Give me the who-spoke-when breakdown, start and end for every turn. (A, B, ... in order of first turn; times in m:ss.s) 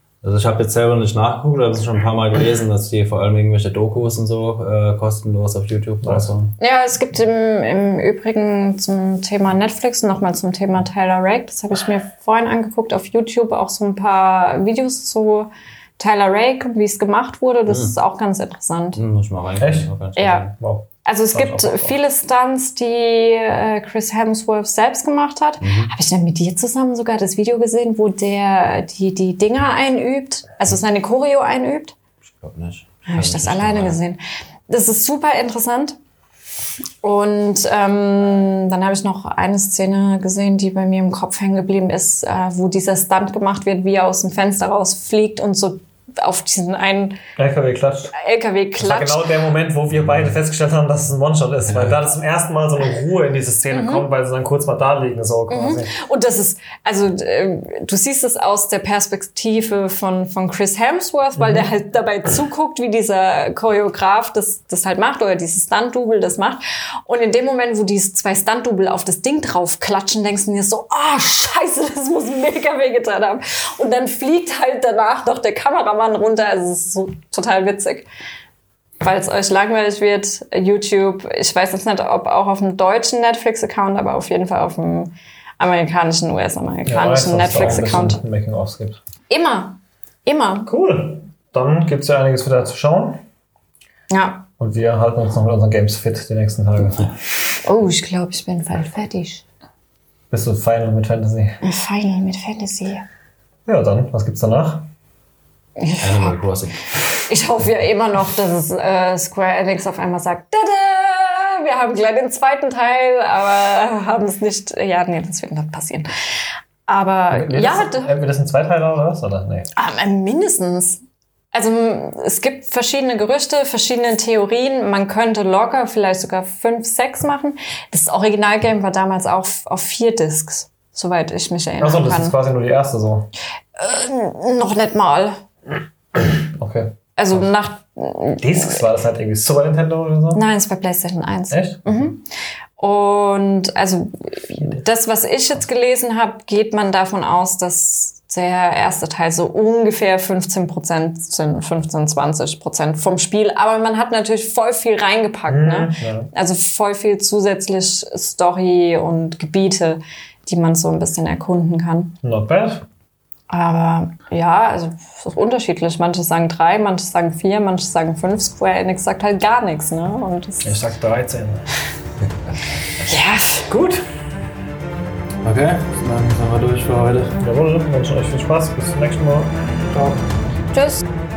0:00.2-0:06.5 A
0:06.0-0:06.3 B
0:06.6-0:19.0 C
0:17.7-0:17.9 A
0:18.9-0:20.5 A
0:19.6-0:19.9 B
0:20.2-0:20.5 C
0:20.5-0:21.9 B
0:21.0-0:32.0 C
0:25.6-0:25.9 A
0:32.3-0:34.0 A
0:33.1-0:36.0 C
0:37.0-0:47.2 C
0:47.4-0:48.1 B
0:48.1-0:49.4 C
0:48.8-0:55.9 B
0:53.7-0:54.0 C
0:55.5-1:18.1 C
1:01.4-1:01.7 B
1:19.0-1:28.2 C
1:26.9-1:29.0 B
1:29.3-1:30.7 C
1:30.7-1:33.2 B
1:34.1-1:34.5 C
1:34.6-1:37.2 B
1:37.6-1:39.4 C
1:40.3-1:41.6 B
1:41.6-1:43.0 C
1:43.7-1:44.9 B
1:45.8-1:46.4 C
1:46.0-1:47.3 A
1:47.2-1:56.1 C
1:56.9-1:58.1 C
1:57.3-1:59.7 B
1:59.7-2:01.0 C
2:01.5-2:12.4 C
2:11.8-2:13.3 B
2:13.8-2:15.4 C
2:16.3-2:17.0 B
2:17.2-2:18.8 C
2:18.4-2:20.4 B
2:20.3-2:22.2 C
2:21.5-2:22.1 B
2:22.8-2:42.2 C
2:35.5-2:36.3 B
2:42.2-2:42.8 B
2:43.5-2:50.8 C
2:50.6-2:51.6 B
2:53.0-2:53.7 C
2:53.7-2:54.0 B
2:55.4-2:57.4 A
2:57.4-3:00.2 B
3:00.7-3:01.0 C